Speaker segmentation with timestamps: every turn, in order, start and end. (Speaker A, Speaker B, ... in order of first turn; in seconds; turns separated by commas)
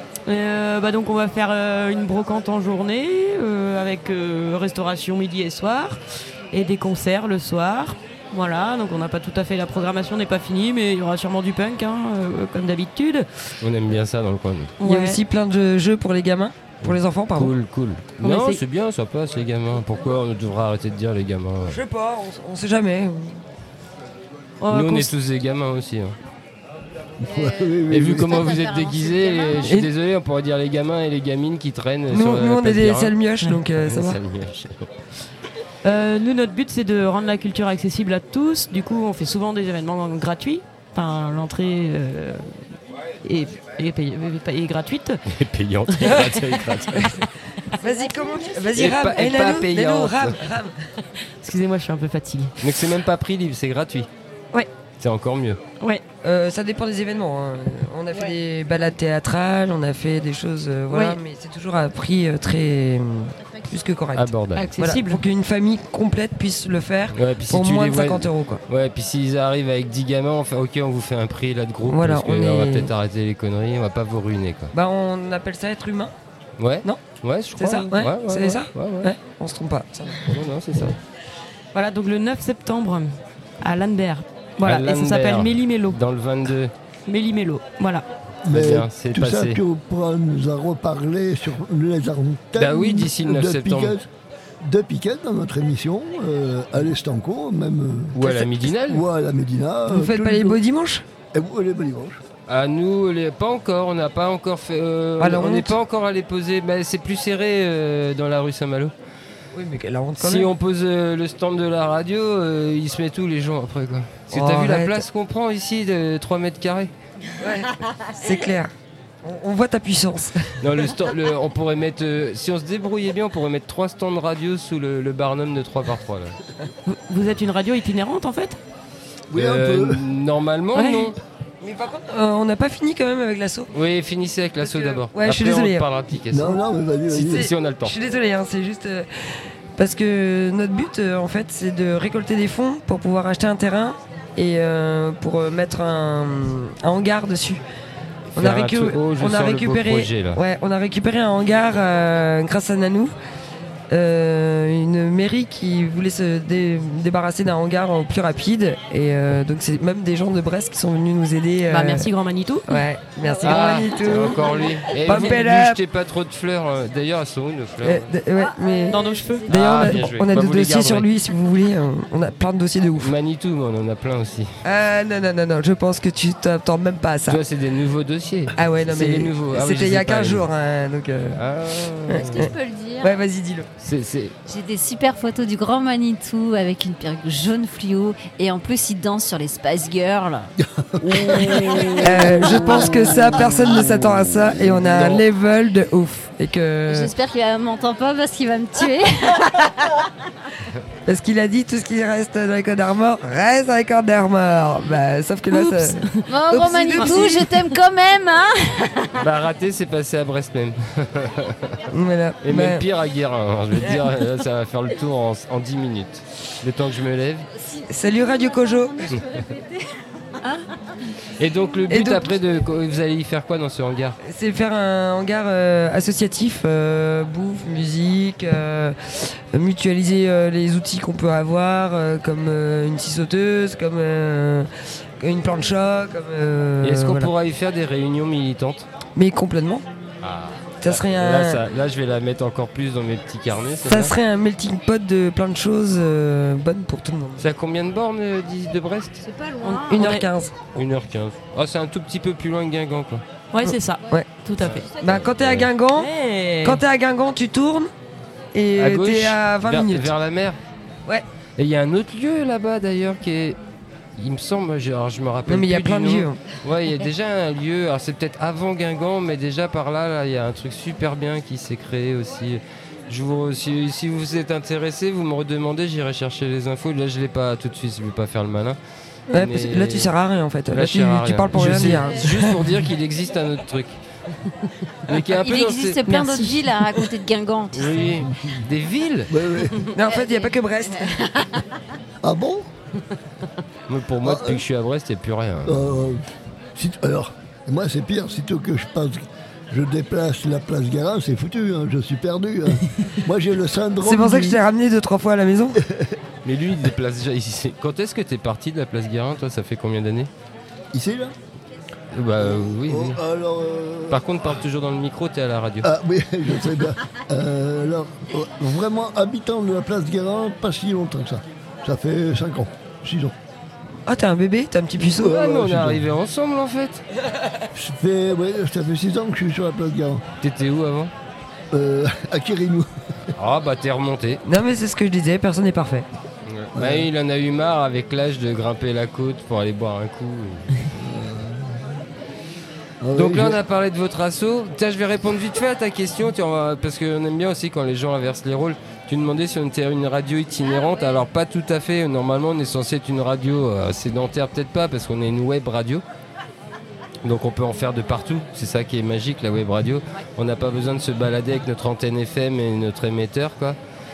Speaker A: 0.3-13.3, Speaker B: 13.6-14.8, Speaker A: 14.8-15.2, Speaker C: 14.8-17.5, Speaker B: 16.8-21.8, Speaker A: 18.2-18.6, Speaker C: 21.7-23.4, Speaker A: 24.6-25.1, Speaker B: 24.7-26.2, Speaker D: 27.2-28.5, Speaker B: 27.9-33.1, Speaker E: 28.1-29.8, Speaker C: 32.1-34.2, Speaker B: 33.7-35.0, Speaker A: 35.8-42.6, Speaker A: 43.2-45.2, Speaker B: 45.3-47.2, Speaker A: 45.9-47.1, Speaker C: 47.7-50.9, Speaker B: 48.7-50.4, Speaker A: 51.2-52.6, Speaker B: 52.6-54.1, Speaker B: 55.0-55.6, Speaker C: 56.2-68.6, Speaker A: 60.9-61.2, Speaker B: 64.1-64.7, Speaker A: 64.6-65.2, Speaker B: 67.1-74.7, Speaker C: 71.9-72.9, Speaker C: 74.7-76.1, Speaker B: 76.6-79.1, Speaker C: 77.6-80.3, Speaker B: 80.2-81.0, Speaker A: 81.7-86.0, Speaker B: 84.6-86.7, Speaker A: 87.1-88.1, Speaker D: 88.5-94.1, Speaker B: 88.5-89.6, Speaker B: 92.6-94.0, Speaker D: 94.6-100.6, Speaker B: 98.1-99.0, Speaker C: 98.2-98.5, Speaker C: 99.9-101.0, Speaker D: 101.3-102.2, Speaker B: 102.5-108.9, Speaker C: 105.2-105.8, Speaker C: 109.5-110.5, Speaker B: 110.2-116.9, Speaker C: 114.3-115.0, Speaker C: 117.4-118.7, Speaker C: 119.2-120.6, Speaker B: 120.6-126.4, Speaker A: 126.9-128.6, Speaker D: 129.3-130.1, Speaker B: 129.3-131.2, Speaker A: 130.8-131.1, Speaker C: 131.6-133.7, Speaker B: 133.7-138.0, Speaker C: 134.6-135.9, Speaker D: 136.3-137.5, Speaker C: 137.3-147.6, Speaker B: 148.3-150.4, Speaker C: 148.4-153.1, Speaker C: 153.9-162.1, Speaker A: 161.7-163.9, Speaker C: 162.7-165.8, Speaker B: 163.4-168.1, Speaker C: 167.8-173.1, Speaker A: 168.9-169.5, Speaker B: 169.5-171.1, Speaker B: 173.0-174.5, Speaker C: 174.6-177.4, Speaker B: 177.3-180.5, Speaker C: 178.6-181.4, Speaker B: 181.3-182.5, Speaker C: 182.1-182.5, Speaker E: 182.2-183.1, Speaker C: 183.0-183.7, Speaker B: 183.8-184.3, Speaker E: 184.5-190.5, Speaker D: 190.6-192.3, Speaker E: 191.2-192.0, Speaker B: 191.2-194.0, Speaker C: 192.0-197.1, Speaker B: 194.6-195.2, Speaker E: 196.9-199.7, Speaker C: 201.1-207.5, Speaker A: 205.5-206.2, Speaker E: 206.3-209.2, Speaker A: 207.0-207.4, Speaker B: 209.2-211.8, Speaker C: 211.9-212.8, Speaker B: 212.4-217.5, Speaker C: 217.8-219.2, Speaker B: 221.4-224.2, Speaker C: 221.9-222.3, Speaker C: 224.2-234.7, Speaker C: 235.2-237.3, Speaker B: 236.8-238.9, Speaker C: 239.2-239.8, Speaker B: 240.2-244.1, Speaker C: 240.8-241.6, Speaker C: 243.9-247.4, Speaker B: 247.4-249.3, Speaker E: 249.2-250.1, Speaker A: 249.6-250.3, Speaker C: 249.9-250.5, Speaker B: 250.7-253.2, Speaker A: 253.5-254.9, Speaker C: 253.7-254.3, Speaker B: 254.6-255.7, Speaker C: 255.0-256.1, Speaker A: 255.9-256.8, Speaker C: 256.6-257.9, Speaker C: 258.5-260.1, Speaker B: 258.8-260.6, Speaker B: 261.6-263.6, Speaker B: 264.2-278.8, Speaker C: 265.5-266.4, Speaker C: 279.3-282.6, Speaker B: 279.3-280.1, Speaker B: 280.7-284.0, Speaker B: 285.1-286.0, Speaker E: 285.3-288.2, Speaker A: 286.1-286.6, Speaker B: 287.7-289.3, Speaker D: 289.3-289.8, Speaker C: 289.9-291.2, Speaker D: 292.2-292.7, Speaker B: 293.9-295.9, Speaker D: 294.2-294.6, Speaker D: 295.6-296.2, Speaker D: 296.8-304.6, Speaker C: 304.0-305.8, Speaker D: 305.8-306.2, Speaker B: 306.4-310.3, Speaker D: 310.9-311.4, Speaker B: 312.1-313.2, Speaker D: 312.4-314.2, Speaker B: 314.1-315.9, Speaker D: 315.8-323.3, Speaker C: 324.1-325.4, Speaker D: 325.0-326.1, Speaker B: 325.0-327.0, Speaker D: 327.7-330.2, Speaker B: 330.4-331.1, Speaker D: 331.7-332.9, Speaker B: 333.4-334.4, Speaker C: 334.5-336.1, Speaker B: 336.5-340.9, Speaker D: 336.8-337.1, Speaker D: 340.9-342.0, Speaker D: 343.0-343.6, Speaker B: 343.1-356.0, Speaker B: 357.2-363.8